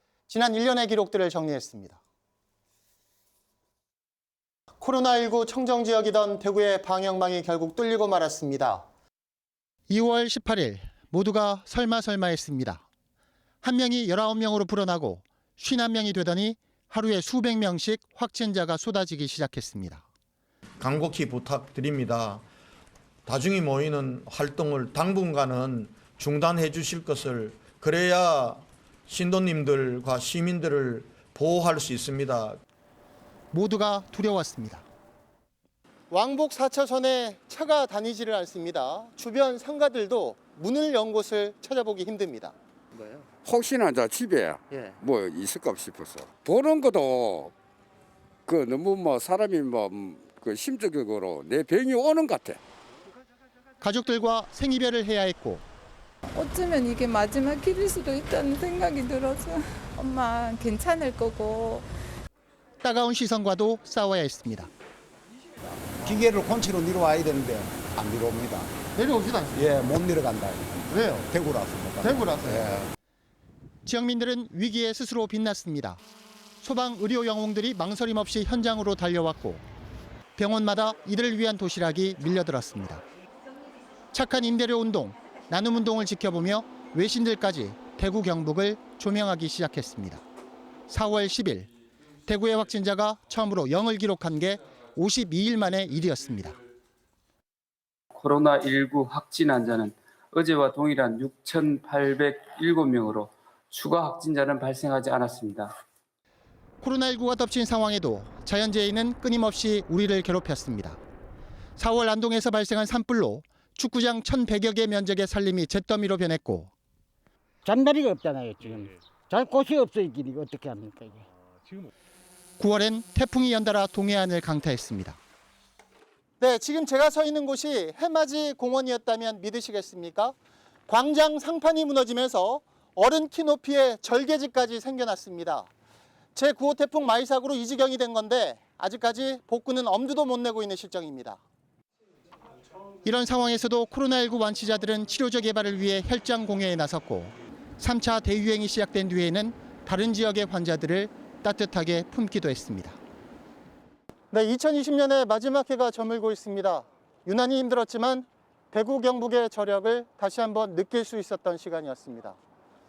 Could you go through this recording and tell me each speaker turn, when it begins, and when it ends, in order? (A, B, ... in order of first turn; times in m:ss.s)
0:00.3-0:02.0 A
0:04.8-0:08.9 A
0:09.9-0:12.8 A
0:13.6-0:20.0 A
0:20.8-0:22.4 B
0:23.3-0:32.6 B
0:33.5-0:34.8 A
0:36.1-0:42.5 A
0:43.4-0:47.5 C
0:48.5-0:52.6 C
0:53.8-0:55.6 A
0:56.3-1:01.8 D
1:02.8-1:04.7 A
1:06.1-1:08.8 E
1:09.0-1:09.6 A
1:09.5-1:12.6 E
1:10.9-1:11.3 A
1:12.0-1:12.8 A
1:13.8-1:16.0 A
1:16.6-1:19.6 A
1:20.4-1:23.0 A
1:24.1-1:30.2 A
1:30.9-1:31.7 A
1:32.2-1:36.6 A
1:38.2-1:45.7 F
1:46.8-1:51.0 A
1:51.8-1:56.7 A
1:57.6-2:01.2 G
2:02.6-2:05.2 A
2:06.4-2:10.4 A
2:10.9-2:15.7 A
2:16.3-2:21.4 A
2:23.0-2:33.0 A
2:34.3-2:42.4 A